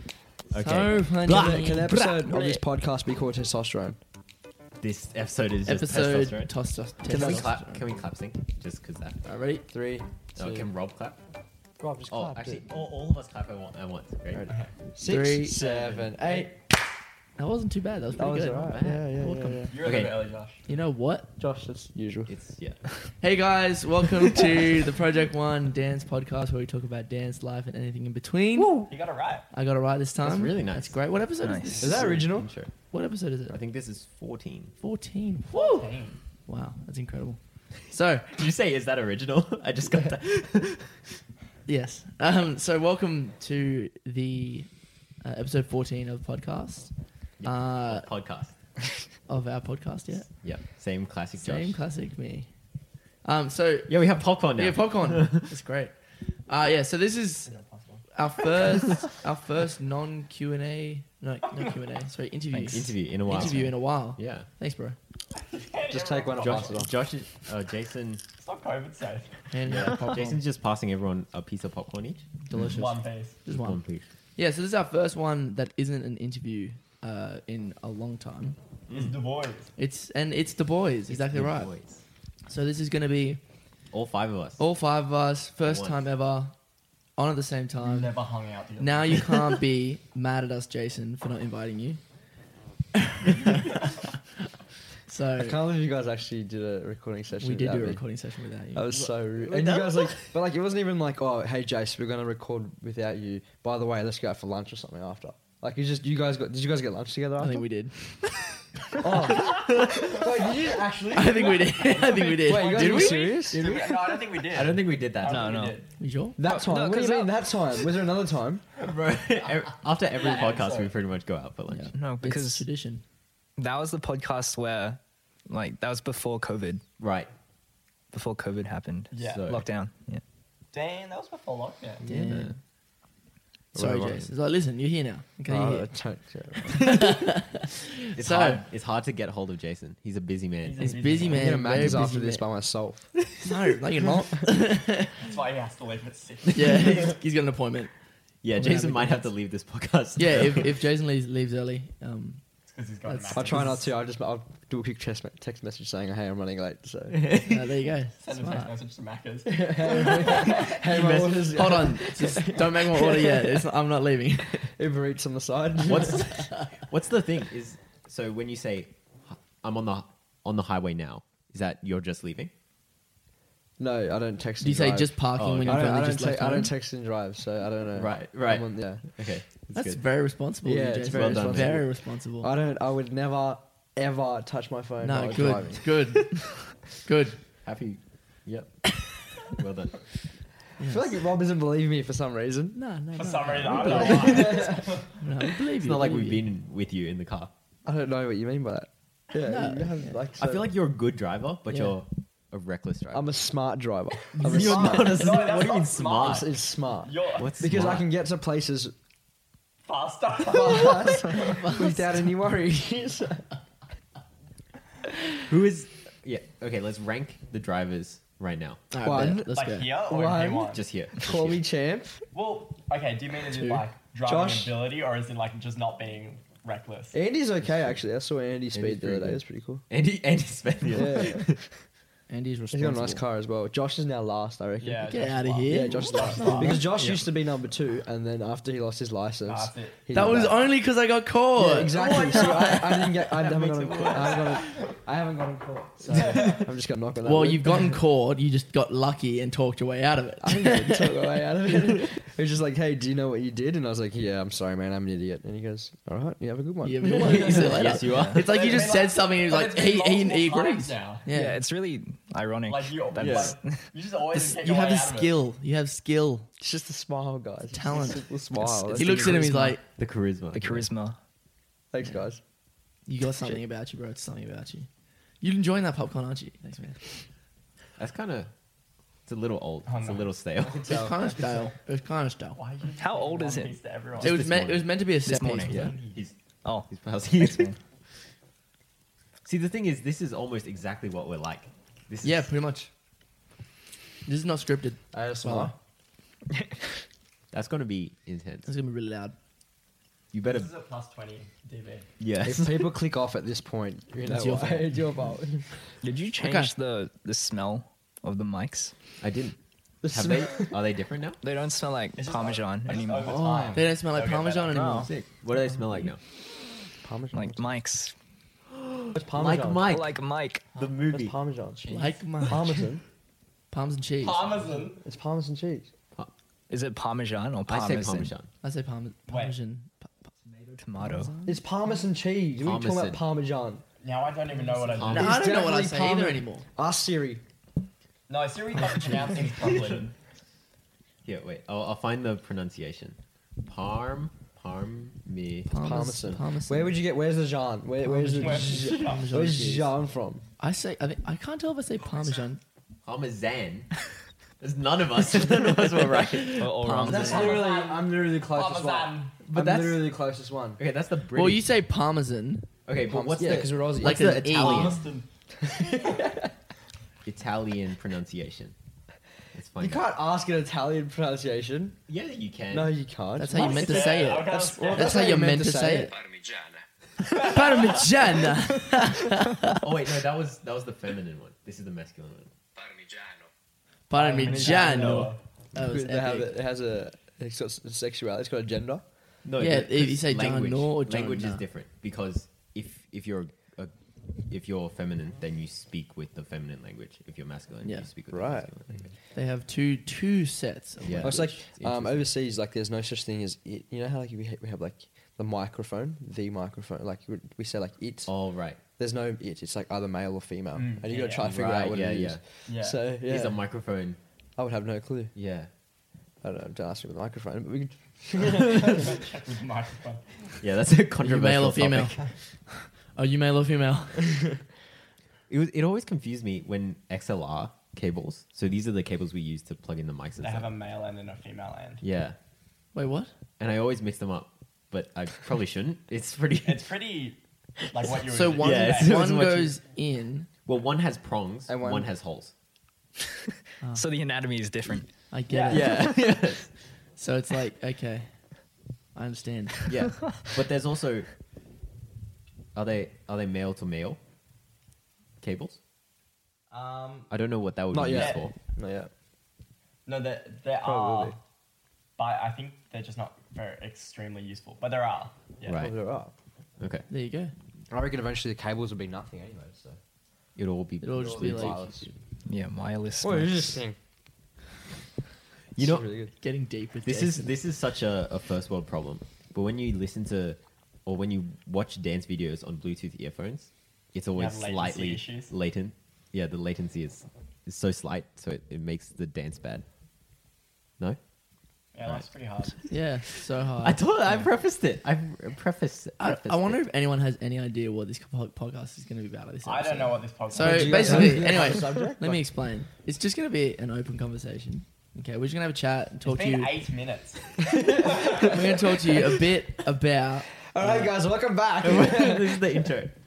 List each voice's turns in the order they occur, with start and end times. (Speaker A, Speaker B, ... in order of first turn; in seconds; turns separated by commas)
Speaker A: 0.5-2.6, Speaker B: 0.6-2.0, Speaker C: 1.3-4.0, Speaker A: 4.8-6.5, Speaker B: 5.7-7.9, Speaker C: 7.1-7.5, Speaker A: 7.1-9.2, Speaker B: 9.2-9.7, Speaker C: 9.7-10.7, Speaker A: 10.4-11.2, Speaker C: 11.8-12.7, Speaker A: 12.1-14.5, Speaker C: 14.3-16.6, Speaker B: 15.0-15.6, Speaker D: 15.6-16.5, Speaker A: 15.7-16.1, Speaker B: 17.4-18.9, Speaker C: 18.2-19.8, Speaker A: 18.7-20.1, Speaker D: 19.7-20.6, Speaker B: 20.7-21.3, Speaker C: 21.4-22.4, Speaker A: 22.3-22.8, Speaker B: 23.2-28.9, Speaker A: 28.6-28.9, Speaker D: 28.9-29.4, Speaker B: 29.5-32.4, Speaker A: 30.2-31.0, Speaker E: 31.4-31.8, Speaker C: 31.8-32.5, Speaker A: 31.8-32.7, Speaker B: 32.9-33.6, Speaker A: 33.5-34.7, Speaker B: 34.8-35.9, Speaker D: 35.5-36.2, Speaker B: 36.5-38.4, Speaker A: 38.3-41.2, Speaker B: 41.7-48.1, Speaker A: 47.4-48.5, Speaker B: 49.3-50.3, Speaker A: 50.4-51.8, Speaker B: 51.4-52.5, Speaker B: 53.2-54.0, Speaker A: 53.9-55.5, Speaker B: 54.5-56.0, Speaker B: 56.5-57.5, Speaker D: 57.5-58.0, Speaker B: 58.1-65.0, Speaker A: 62.5-64.5, Speaker D: 65.3-66.9, Speaker C: 65.9-66.9, Speaker A: 66.4-68.2, Speaker D: 68.4-69.4, Speaker B: 69.5-70.4, Speaker A: 69.7-72.2, Speaker B: 72.5-73.8, Speaker D: 72.7-73.4, Speaker A: 73.5-74.1, Speaker B: 74.4-78.6, Speaker A: 78.9-79.2, Speaker D: 78.9-79.7, Speaker B: 79.8-81.8, Speaker A: 81.1-82.0, Speaker B: 82.5-83.4, Speaker A: 83.9-84.6, Speaker B: 84.6-86.5, Speaker A: 85.6-86.1, Speaker B: 87.2-88.2, Speaker D: 87.8-89.5, Speaker B: 88.8-92.0, Speaker B: 93.0-94.0, Speaker B: 95.1-95.6, Speaker C: 95.4-98.0, Speaker B: 97.4-99.2, Speaker C: 98.7-107.7, Speaker A: 99.5-100.2, Speaker B: 107.4-109.6, Speaker C: 109.0-111.7, Speaker A: 109.4-110.1, Speaker B: 111.1-113.5, Speaker A: 111.9-112.2, Speaker C: 112.3-114.0, Speaker D: 112.5-115.9, Speaker A: 114.5-115.6, Speaker E: 115.3-115.8, Speaker B: 116.0-116.4, Speaker C: 116.4-118.6, Speaker E: 116.4-118.0, Speaker A: 118.8-121.9, Speaker D: 120.2-120.9, Speaker B: 121.7-123.0, Speaker E: 121.9-122.7, Speaker E: 123.6-126.8, Speaker A: 127.0-127.3, Speaker E: 128.1-130.2, Speaker D: 129.1-129.5, Speaker A: 129.3-129.7, Speaker D: 130.7-132.0, Speaker B: 132.1-132.5, Speaker C: 132.1-132.4, Speaker A: 132.3-132.6, Speaker C: 133.7-134.3, Speaker B: 133.8-136.0, Speaker C: 135.5-136.9, Speaker B: 136.7-138.6, Speaker A: 138.2-141.3, Speaker D: 140.6-141.7, Speaker B: 140.8-142.5, Speaker C: 141.3-143.2, Speaker B: 143.4-145.2, Speaker C: 144.0-144.4, Speaker D: 145.2-147.2, Speaker B: 146.6-147.9, Speaker A: 148.4-150.7, Speaker B: 148.5-149.3, Speaker B: 150.2-152.4, Speaker D: 152.7-153.8, Speaker B: 153.1-153.8, Speaker C: 153.3-157.2, Speaker A: 157.1-157.7, Speaker B: 157.4-158.7, Speaker D: 158.2-160.7, Speaker C: 159.5-163.6, Speaker A: 160.3-161.9, Speaker B: 161.5-164.7, Speaker C: 164.6-166.5, Speaker A: 165.8-172.5, Speaker C: 173.8-179.1, Speaker B: 174.6-176.7, Speaker A: 175.4-175.9, Speaker A: 177.9-180.0, Speaker B: 179.7-182.5, Speaker C: 180.7-185.9, Speaker A: 181.1-181.8, Speaker B: 185.0-187.4, Speaker A: 187.6-190.1, Speaker B: 190.8-191.1, Speaker C: 190.8-192.8, Speaker B: 192.8-196.4, Speaker D: 193.2-195.1, Speaker C: 193.8-194.9, Speaker A: 194.1-194.6, Speaker A: 195.7-197.5, Speaker C: 197.8-200.7, Speaker B: 199.4-200.2, Speaker A: 200.4-203.3, Speaker C: 203.1-205.2, Speaker A: 204.3-206.5, Speaker D: 204.5-207.6, Speaker C: 206.2-208.9, Speaker A: 207.4-208.1, Speaker D: 209.8-211.8, Speaker C: 210.5-213.5, Speaker B: 211.3-212.0, Speaker A: 215.5-218.8, Speaker B: 218.9-219.9, Speaker C: 219.0-222.2, Speaker D: 219.5-220.9, Speaker A: 220.7-221.6, Speaker D: 222.3-227.2, Speaker B: 223.5-223.9, Speaker C: 224.2-224.7, Speaker C: 227.1-229.8, Speaker A: 227.6-228.0, Speaker A: 228.7-231.7, Speaker C: 230.9-231.5, Speaker B: 232.3-233.2, Speaker C: 232.7-235.0, Speaker D: 234.8-236.8, Speaker B: 235.0-236.9, Speaker C: 235.7-240.7, Speaker E: 236.9-237.3, Speaker D: 239.4-240.0, Speaker B: 240.1-242.3, Speaker C: 241.6-248.0, Speaker D: 241.9-242.8, Speaker A: 242.0-244.7, Speaker D: 244.0-244.8, Speaker D: 246.1-246.7, Speaker A: 246.2-246.6, Speaker B: 247.2-251.3, Speaker C: 250.4-257.9, Speaker B: 256.8-261.6, Speaker A: 257.2-258.4, Speaker E: 258.0-258.4, Speaker D: 258.4-261.2, Speaker E: 261.3-263.9, Speaker D: 262.7-265.3, Speaker A: 263.2-263.6, Speaker B: 264.3-266.5, Speaker C: 266.6-269.8, Speaker B: 267.7-269.8, Speaker E: 268.7-269.5, Speaker A: 270.0-270.9, Speaker E: 270.5-271.2, Speaker C: 271.9-272.4, Speaker B: 273.1-274.9, Speaker B: 275.4-277.0, Speaker A: 278.0-278.5, Speaker A: 279.3-281.1, Speaker D: 279.9-280.3, Speaker C: 280.6-281.4, Speaker B: 280.9-282.6, Speaker D: 282.6-284.4, Speaker E: 283.0-283.7, Speaker A: 284.1-284.9, Speaker B: 284.2-285.8, Speaker E: 285.2-286.0, Speaker D: 285.7-286.2, Speaker A: 285.7-287.7, Speaker E: 286.6-287.8, Speaker A: 289.4-292.5, Speaker B: 292.2-292.9, Speaker B: 294.2-295.7, Speaker C: 295.1-295.8, Speaker A: 297.5-298.7, Speaker B: 298.7-299.4, Speaker A: 300.3-300.7, Speaker D: 300.4-302.1, Speaker A: 302.2-303.0, Speaker C: 302.4-305.9, Speaker B: 304.2-305.1, Speaker E: 306.0-308.9, Speaker B: 306.4-306.8, Speaker A: 309.2-311.4, Speaker C: 310.0-310.8, Speaker E: 311.4-313.5, Speaker D: 312.2-314.9, Speaker C: 313.3-313.8, Speaker B: 313.7-315.1, Speaker E: 314.7-315.1, Speaker A: 314.9-316.2, Speaker C: 317.0-317.7, Speaker E: 317.3-318.1, Speaker A: 318.7-321.4, Speaker C: 319.1-319.9, Speaker E: 319.9-320.6, Speaker C: 321.1-323.0, Speaker B: 321.9-322.9, Speaker B: 323.7-324.6, Speaker D: 324.2-325.0, Speaker C: 324.8-325.9, Speaker E: 326.7-328.3, Speaker A: 327.7-328.5, Speaker B: 328.6-331.7, Speaker D: 329.3-329.6, Speaker E: 330.7-331.4, Speaker C: 331.5-333.8, Speaker A: 332.6-333.2, Speaker D: 334.0-335.3, Speaker A: 334.9-335.4, Speaker C: 335.0-337.4, Speaker B: 335.1-336.6, Speaker D: 338.3-340.1, Speaker A: 339.6-340.0, Speaker A: 341.2-345.7, Speaker B: 345.7-347.0, Speaker C: 345.8-350.4, Speaker B: 348.0-350.0, Speaker D: 348.4-349.3, Speaker B: 350.6-352.6, Speaker A: 353.1-354.0, Speaker A: 354.6-357.1, Speaker E: 356.6-357.7, Speaker D: 357.0-359.4, Speaker C: 357.0-360.8, Speaker A: 359.5-360.0, Speaker A: 360.8-361.7, Speaker B: 361.3-362.7, Speaker A: 362.9-365.0, Speaker C: 363.1-364.7, Speaker B: 364.0-365.0, Speaker D: 364.6-365.3, Speaker C: 365.6-366.5, Speaker D: 365.9-366.2, Speaker A: 367.2-368.8, Speaker A: 369.5-370.0, Speaker C: 369.8-372.0, Speaker A: 372.1-372.9, Speaker C: 372.7-374.2, Speaker B: 373.4-376.1, Speaker D: 373.5-375.3, Speaker C: 374.8-376.2, Speaker D: 377.3-377.9, Speaker B: 377.3-379.8, Speaker A: 379.7-382.5, Speaker B: 384.1-386.5, Speaker D: 384.1-385.4, Speaker E: 384.4-385.2, Speaker C: 384.6-384.8, Speaker C: 385.8-389.1, Speaker A: 389.4-399.1, Speaker B: 389.6-391.6, Speaker B: 397.8-398.1, Speaker C: 398.3-398.7, Speaker B: 399.3-401.6, Speaker A: 401.0-402.3, Speaker C: 401.2-413.6, Speaker A: 408.3-408.8, Speaker D: 410.8-411.6, Speaker A: 411.4-412.4, Speaker D: 412.7-413.1, Speaker A: 413.2-414.2, Speaker C: 414.6-415.3, Speaker A: 415.4-415.7, Speaker C: 416.4-419.1, Speaker D: 418.8-420.2, Speaker A: 420.6-422.3, Speaker B: 421.2-424.5, Speaker A: 425.5-430.7, Speaker D: 430.4-432.0, Speaker A: 432.0-432.4, Speaker B: 432.9-433.3, Speaker A: 433.6-436.9, Speaker D: 436.6-439.2, Speaker B: 438.3-440.5, Speaker A: 438.6-439.8, Speaker A: 440.7-442.5, Speaker C: 441.7-442.1, Speaker B: 443.8-444.1, Speaker E: 443.9-445.3, Speaker B: 445.3-446.3, Speaker D: 445.5-445.9, Speaker A: 445.7-446.7, Speaker B: 447.2-448.4, Speaker B: 449.1-449.9, Speaker A: 449.9-451.3, Speaker A: 452.7-454.2, Speaker A: 455.4-455.8, Speaker D: 456.7-457.3, Speaker A: 457.3-458.5, Speaker C: 457.9-459.1, Speaker D: 458.1-458.5, Speaker D: 460.1-461.4, Speaker C: 460.8-461.4, Speaker D: 462.2-465.9, Speaker A: 465.6-465.9, Speaker C: 465.7-466.3, Speaker A: 466.8-467.1, Speaker B: 467.1-467.5, Speaker C: 467.9-470.0, Speaker A: 470.6-471.9, Speaker B: 471.0-472.1, Speaker C: 471.1-472.2, Speaker E: 472.5-473.8, Speaker C: 473.2-474.0, Speaker A: 475.8-476.1, Speaker C: 475.8-476.3, Speaker B: 476.4-477.6, Speaker A: 477.1-489.9, Speaker D: 484.4-485.5, Speaker D: 491.9-492.9, Speaker B: 492.9-494.1, Speaker A: 493.8-496.8, Speaker B: 496.2-506.8, Speaker D: 499.6-501.5, Speaker C: 500.6-502.4, Speaker D: 506.2-508.3, Speaker C: 507.6-508.6, Speaker B: 508.4-511.1, Speaker C: 510.7-512.9, Speaker A: 511.8-513.1